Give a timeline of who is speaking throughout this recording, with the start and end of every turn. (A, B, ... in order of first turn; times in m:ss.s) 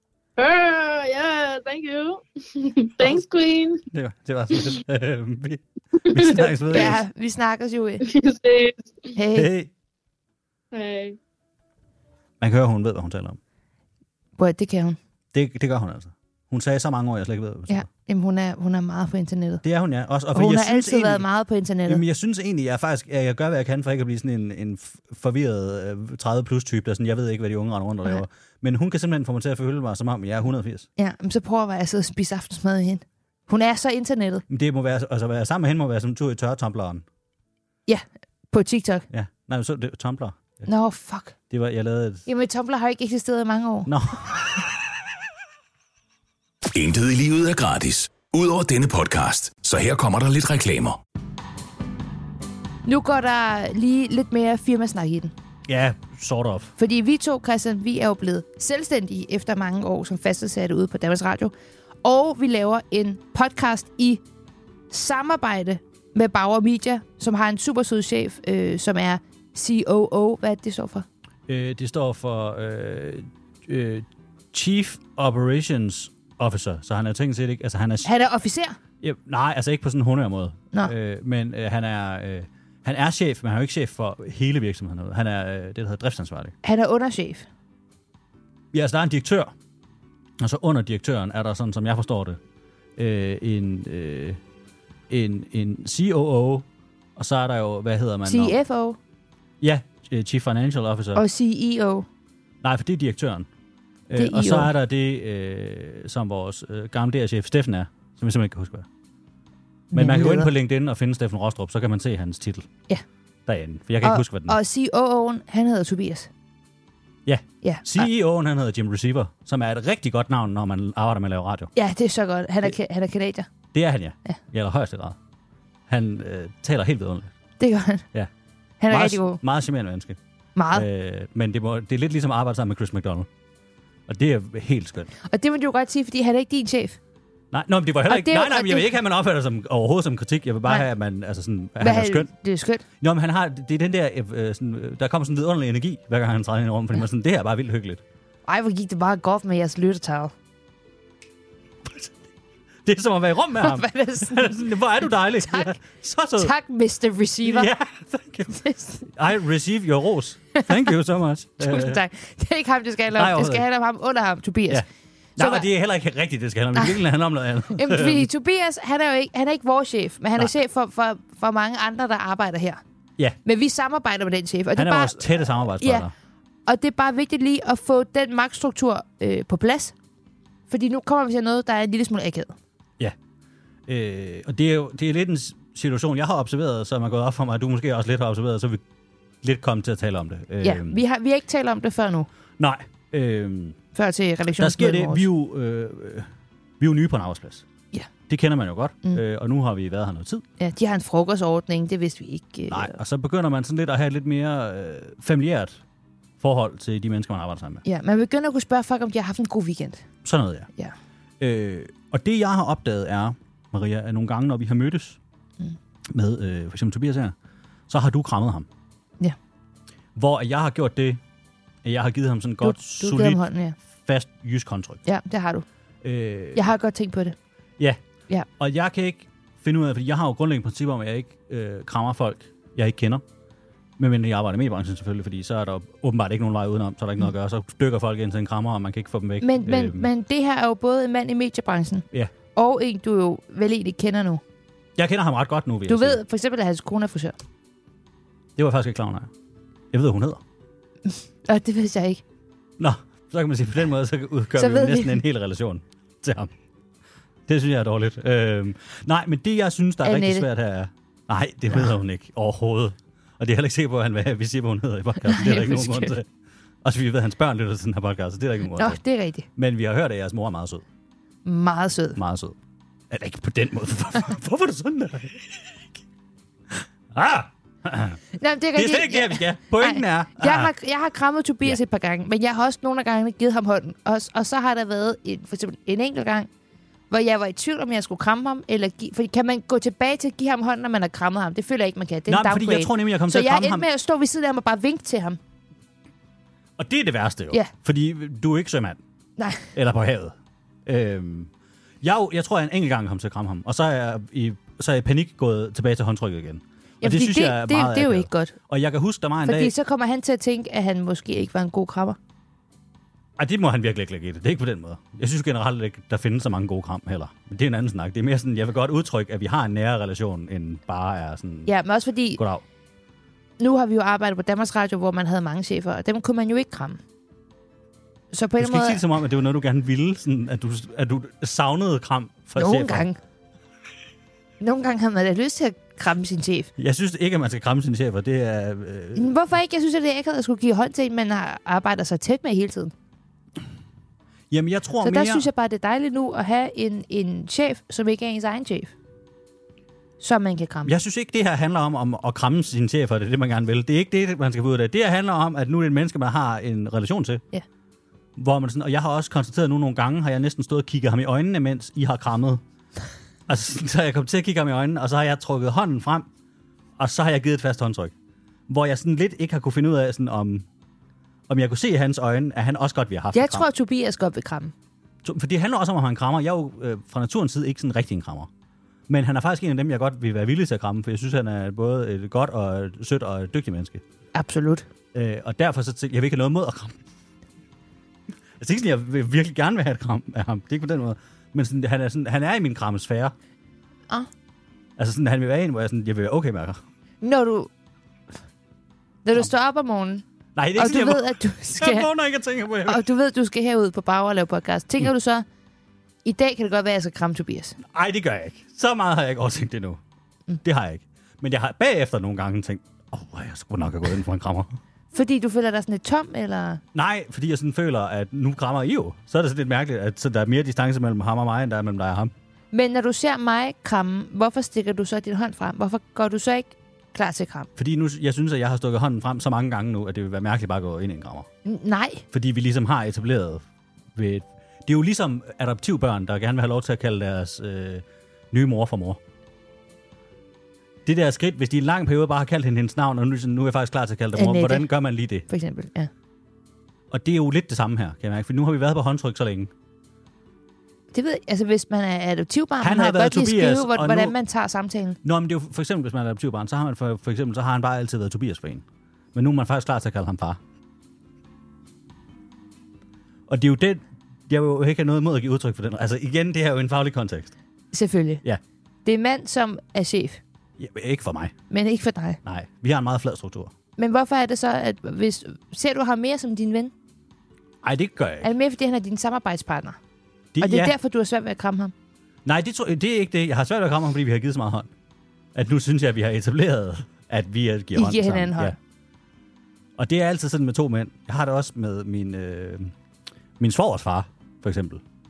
0:00.4-0:03.8 A
0:03.9-0:07.0 B
0:06.0-0:06.8 A
0:06.7-0:08.0 C
0:08.0-0:09.1 A
0:09.1-0:09.5 C
0:09.3-0:09.7 B
0:10.7-0:11.2 A
0:12.4-0:13.4 B
0:14.4-0:15.0 C
0:15.3-0:17.9 B
0:17.7-0:19.6 C
0:19.6-0:21.2 B
0:20.3-0:22.0 C
0:21.9-0:30.9 B
0:31.0-0:34.4 C
0:34.5-0:37.0 B
0:37.9-0:39.1 C
0:39.1-0:40.6 B
0:40.6-0:41.4 C
0:41.5-0:42.2 B
0:42.2-0:43.9 C
0:43.8-0:44.6 B
0:46.7-0:51.0 D
0:52.8-0:55.3 C
0:55.7-0:56.7 B
0:56.8-1:01.5 C
1:02.0-1:04.2 C
1:04.9-1:11.0 C
1:11.5-1:18.1 B
1:18.0-1:18.8 C
1:19.0-1:26.5 B
1:26.6-1:27.4 C
1:28.7-1:29.5 B
1:30.4-1:32.4 B
1:33.0-1:34.4 B
1:35.1-1:38.6 B
1:38.2-1:39.0 C
1:39.6-1:41.2 B
1:41.1-1:42.1 C
1:42.6-1:43.5 B
1:44.1-1:48.9 B
1:44.2-1:44.7 C
1:49.9-1:50.5 C
1:49.9-1:52.7 B
1:53.4-1:54.6 B
1:54.0-1:56.3 C
1:57.2-2:01.7 B
1:57.6-1:58.1 C
2:01.8-2:03.5 C
2:03.7-2:05.2 B
2:05.9-2:07.3 B
2:07.6-2:08.0 C
2:08.8-2:09.4 C
2:08.9-2:10.2 B
2:10.6-2:10.8 C
2:10.7-2:13.3 B
2:14.1-2:15.1 B
2:15.2-2:17.0 C
2:17.5-2:22.3 B
2:18.0-2:18.9 C
2:21.8-2:22.8 C
2:23.0-2:28.0 B
2:28.5-2:30.3 C
2:31.8-2:32.1 B
2:32.8-2:36.5 B
2:33.6-2:34.6 C
2:35.4-2:35.8 C
2:36.4-2:37.7 C
2:37.4-2:42.0 B
2:38.6-2:39.0 C
2:41.6-2:44.8 C
2:43.1-2:43.7 B
2:45.4-2:48.3 B
2:45.4-2:45.6 C
2:47.7-2:52.8 C
2:53.4-2:56.1 C
2:54.8-2:56.1 B
2:56.6-2:59.9 C
3:00.7-3:02.6 C
3:03.9-3:08.8 B
3:09.4-3:11.0 B
3:10.6-3:12.3 C
3:12.6-3:13.8 B
3:13.9-3:15.2 C
3:14.6-3:16.3 B
3:16.8-3:17.6 B
3:18.3-3:20.4 B
3:20.6-3:23.0 C
3:22.7-3:25.8 B
3:26.4-3:27.8 B
3:27.8-3:30.0 C
3:30.2-3:30.7 B
3:31.4-3:35.2 B
3:36.1-3:37.3 B
3:37.9-3:38.7 B
3:40.2-3:41.2 B
3:41.8-3:43.4 B
3:42.6-3:43.7 C
3:44.0-3:45.0 B
3:45.0-3:45.6 C
3:46.0-3:46.7 B
3:46.5-3:47.4 C
3:48.6-3:53.2 B
3:54.0-4:00.1 B
3:59.4-4:04.4 C
4:05.0-4:06.2 B
4:05.9-4:07.4 C
4:08.6-4:09.3 B
4:09.9-4:10.4 B
4:11.4-4:12.2 C
4:12.8-4:16.5 B
4:14.6-4:15.2 C
4:17.5-4:26.3 B
4:20.0-4:20.5 C
4:25.2-4:26.1 C
4:26.8-4:29.0 B
4:28.8-4:29.5 C
4:29.6-4:30.8 B
4:31.4-4:32.2 C
4:32.2-4:32.5 B
4:33.1-4:35.8 B
4:36.7-4:38.2 B
4:38.4-4:46.5 C
4:38.7-4:40.7 B
4:47.1-4:55.4 C
4:52.3-4:53.9 B
4:56.8-4:59.0 B
4:59.4-4:59.7 C
4:59.7-5:01.5 B
5:02.0-5:09.7 B
5:07.0-5:08.5 C
5:09.4-5:12.2 C
5:13.4-5:21.7 B
5:21.6-5:22.4 C
5:22.4-5:22.6 B
5:23.6-5:27.0 C
5:28.3-5:29.0 C
5:28.6-5:33.1 B
5:32.6-5:33.2 C
5:34.6-5:36.7 C
5:36.8-5:39.3 B
5:39.1-5:42.9 C
5:44.5-5:45.5 B
5:45.0-5:48.9 C
5:50.2-5:50.9 C
5:50.8-5:57.4 B
5:58.4-6:02.6 B
6:03.5-6:06.3 B
6:07.0-6:08.1 B
6:08.7-6:10.7 B
6:11.5-6:13.7 B
6:13.3-6:14.7 C
6:15.2-6:18.5 B
6:19.1-6:24.0 B
6:24.3-6:24.8 C
6:25.1-6:27.0 B
6:28.6-6:33.3 B
6:35.0-6:36.8 B
6:37.2-6:37.7 C
6:39.2-6:40.2 C
6:40.6-6:43.0 B
6:40.8-6:42.1 C
6:42.8-6:45.4 C
6:46.2-6:47.8 C
6:47.9-6:50.0 B
6:50.6-6:54.8 B
6:55.1-6:56.8 C
6:56.9-7:02.3 B
7:02.7-7:07.7 C
7:07.8-7:11.5 B
7:11.6-7:12.2 C
7:12.3-7:19.2 B
7:21.0-7:25.4 B
7:24.3-7:24.9 C
7:25.5-7:26.1 C
7:27.1-7:29.7 B
7:31.1-7:35.2 C
7:32.8-7:34.3 B
7:35.2-7:40.6 B
7:43.5-7:47.5 B
7:47.9-7:48.4 C
7:49.0-7:50.4 C
7:50.8-7:51.5 B
7:51.7-7:52.4 C
7:52.4-7:53.7 B
7:54.0-7:56.9 C
7:57.8-7:58.5 B
7:58.4-8:00.0 C
8:00.5-8:00.9 B
8:00.6-8:01.9 C
8:02.4-8:04.9 B
8:05.5-8:08.8 B
8:07.9-8:08.8 C
8:10.0-8:12.9 B
8:13.6-8:15.0 B